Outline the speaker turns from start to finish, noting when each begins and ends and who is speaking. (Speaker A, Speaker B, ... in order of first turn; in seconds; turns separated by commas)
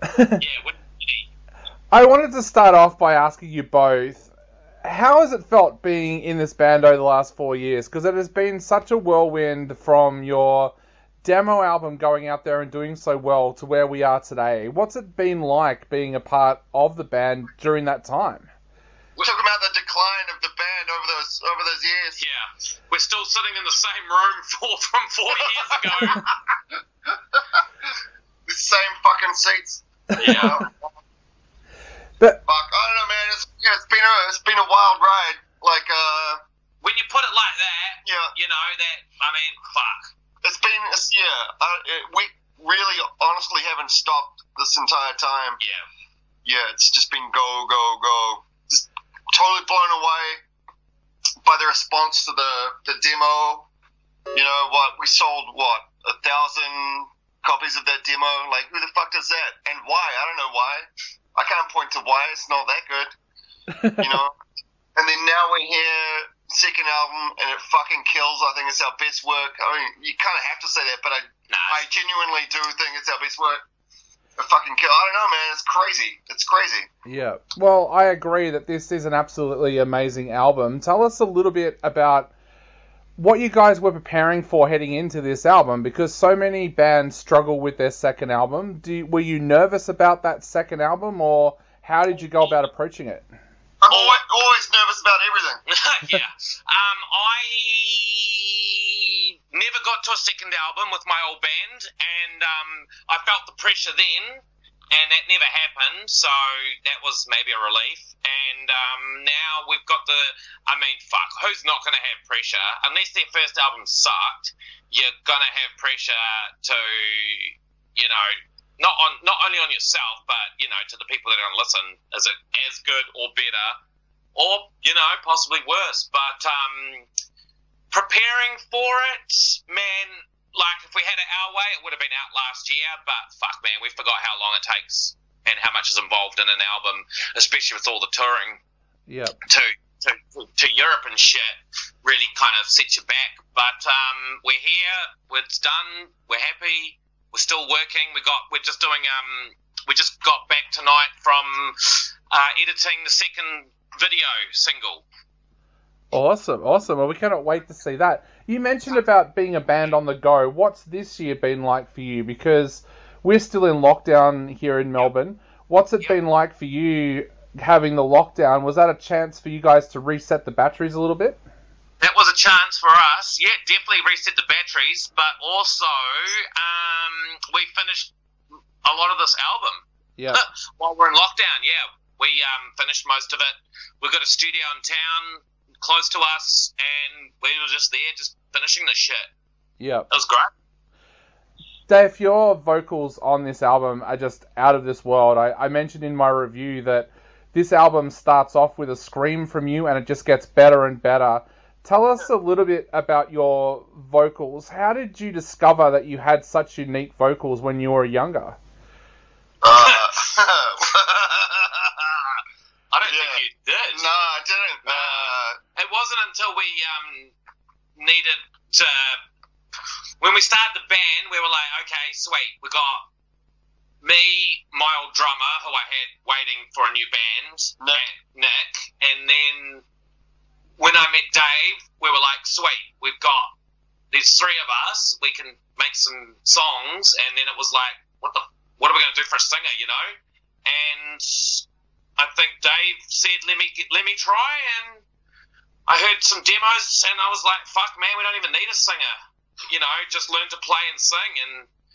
Speaker A: 0.4-1.3, Speaker B: 1.9-4.3, Speaker B: 4.8-18.5, Speaker C: 19.2-22.2, Speaker A: 22.2-26.2, Speaker C: 26.0-26.3, Speaker C: 28.5-30.7, Speaker B: 30.1-30.7, Speaker A: 30.2-30.5, Speaker C: 32.5-36.4, Speaker A: 36.8-40.0, Speaker C: 38.0-38.3, Speaker C: 40.4-45.6, Speaker A: 45.6-45.9, Speaker C: 46.4-50.4, Speaker C: 51.4-53.7, Speaker C: 54.3-63.1, Speaker B: 63.7-64.0, Speaker C: 64.0-64.3, Speaker C: 65.0-73.6, Speaker A: 71.5-71.8, Speaker C: 74.4-76.9, Speaker B: 77.0-82.3, Speaker B: 83.2-93.3, Speaker C: 93.8-95.6, Speaker A: 93.9-94.2, Speaker A: 95.7-123.8, Speaker A: 124.3-127.0, Speaker A: 127.9-138.6, Speaker B: 139.1-139.4, Speaker A: 139.5-155.0, Speaker B: 156.1-171.4, Speaker A: 172.0-178.1, Speaker A: 178.8-189.3, Speaker B: 180.2-180.4, Speaker B: 189.8-190.1, Speaker A: 190.1-190.5, Speaker B: 191.9-208.6, Speaker C: 209.6-211.7, Speaker A: 209.7-210.0, Speaker A: 212.9-214.1, Speaker C: 213.0-215.6, Speaker A: 214.8-217.3, Speaker A: 218.0-219.2, Speaker A: 220.2-223.0, Speaker A: 224.0-229.8, Speaker A: 230.8-233.5, Speaker A: 234.1-240.1, Speaker A: 240.7-241.7, Speaker A: 242.2-245.0, Speaker A: 245.9-249.2, Speaker A: 249.7-251.7